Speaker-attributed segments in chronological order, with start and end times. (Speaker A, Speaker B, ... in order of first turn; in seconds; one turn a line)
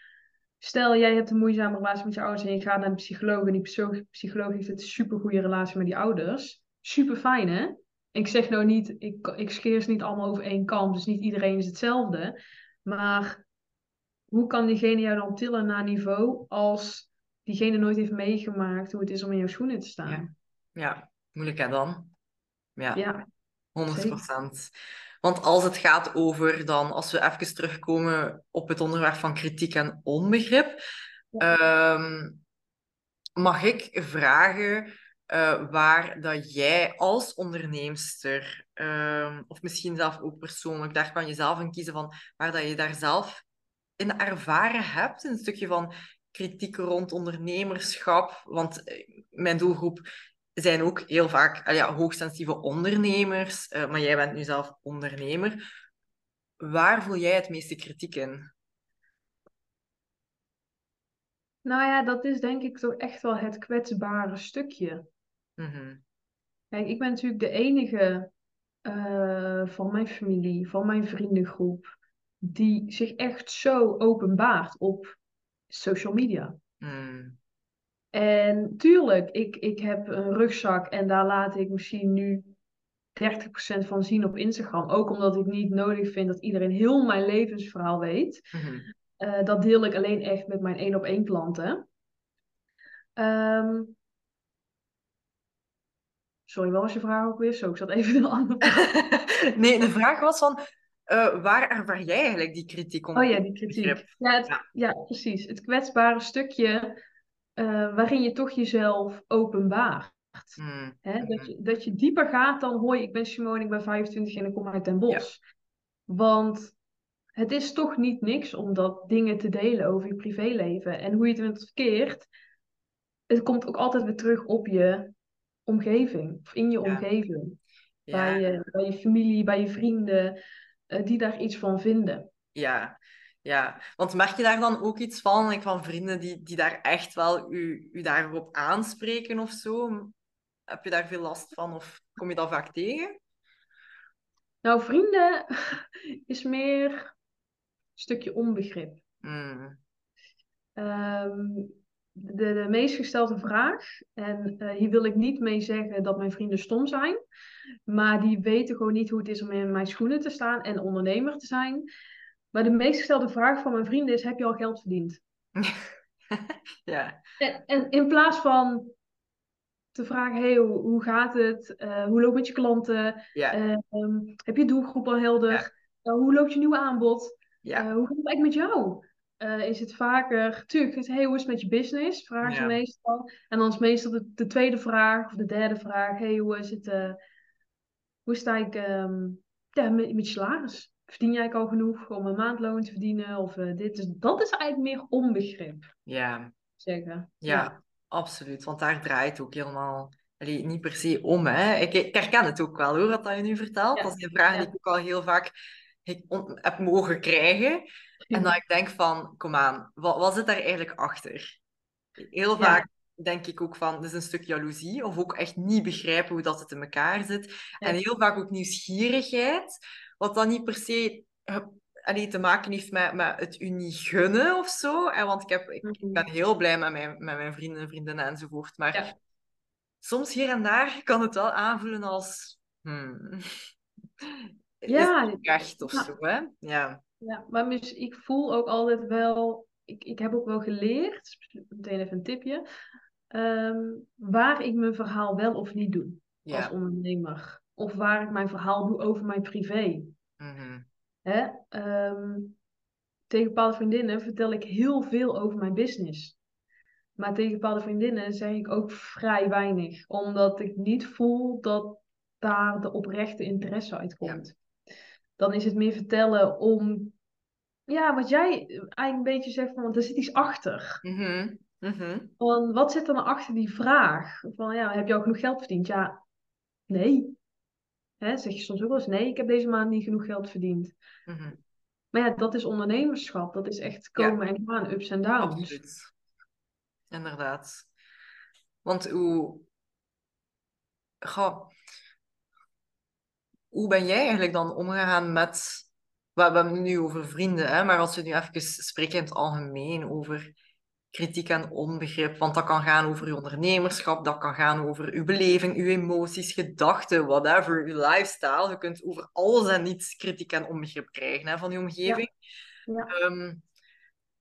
Speaker A: 0.6-13.4
Speaker A: 14.3-20.3
Speaker B: 20.1-22.1
Speaker B: 22.8-23.0
Speaker A: 23.0-23.3
Speaker B: 23.8-24.7
Speaker A: 23.9-24.2
Speaker B: 25.2-30.8
Speaker B: 31.4-32.4
Speaker B: 33.4-43.5
Speaker B: 44.0-50.1
Speaker B: 50.6-55.6
Speaker B: 56.6-58.5
Speaker A: 61.6-65.1
Speaker B: 65.6-66.0
Speaker A: 66.7-68.3
Speaker A: 68.8-75.2
Speaker A: 75.7-76.6
Speaker B: 76.8-77.4
Speaker A: 78.1-82.5
Speaker A: 83.2-88.5
Speaker B: 88.5-88.9
Speaker A: 89.2-91.8
Speaker A: 93.2-94.0
Speaker A: 96.5-98.8
Speaker B: 98.6-104.6
Speaker A: 103.2-107.0
Speaker A: 107.6-115.4
Speaker B: 110.6-111.5
Speaker A: 116.1-116.8
Speaker A: 117.4-122.3
Speaker A: 123.3-125.1
Speaker A: 125.7-127.6
Speaker B: 128.1-128.4
Speaker A: 128.1-130.4
Speaker A: 130.9-132.3
Speaker B: 132.6-140.1
Speaker B: 140.7-143.2
Speaker A: 144.6-147.1
Speaker A: 148.0-149.0
Speaker B: 149.2-149.8
Speaker A: 150.8-157.2
Speaker A: 157.9-161.9
Speaker A: 162.5-165.2
Speaker B: 165.6-167.2
Speaker A: 167.4-168.9
Speaker A: 169.9-187.2
Speaker B: 177.6-177.9
Speaker B: 182.4-182.8
Speaker A: 188.3-195.9
Speaker B: 196.1-196.5
Speaker A: 196.8-197.8
Speaker B: 197.4-205.5
Speaker A: 203.9-204.7
Speaker B: 206.1-211.6
Speaker B: 212.2-229.1
Speaker A: 212.6-212.9
Speaker A: 225.8-226.3
Speaker B: 230.0-233.7
Speaker B: 234.2-237.0
Speaker A: 234.9-236.1
Speaker A: 237.2-242.6
Speaker A: 243.3-250.1
Speaker B: 246.4-246.7
Speaker B: 250.4-250.9
Speaker A: 251.2-252.6
Speaker A: 253.3-256.4
Speaker A: 257.2-264.5
Speaker A: 265.4-267.2
Speaker A: 267.9-271.0
Speaker B: 271.0-272.3
Speaker A: 272.4-276.2
Speaker A: 276.9-277.4
Speaker A: 278.2-281.0
Speaker B: 281.3-281.6
Speaker A: 282.1-285.8
Speaker B: 285.4-286.1
Speaker B: 287.1-287.9
Speaker B: 288.8-289.7
Speaker B: 291.2-291.7
Speaker B: 293.7-300.5
Speaker B: 301.1-312.3
Speaker B: 313.1-313.6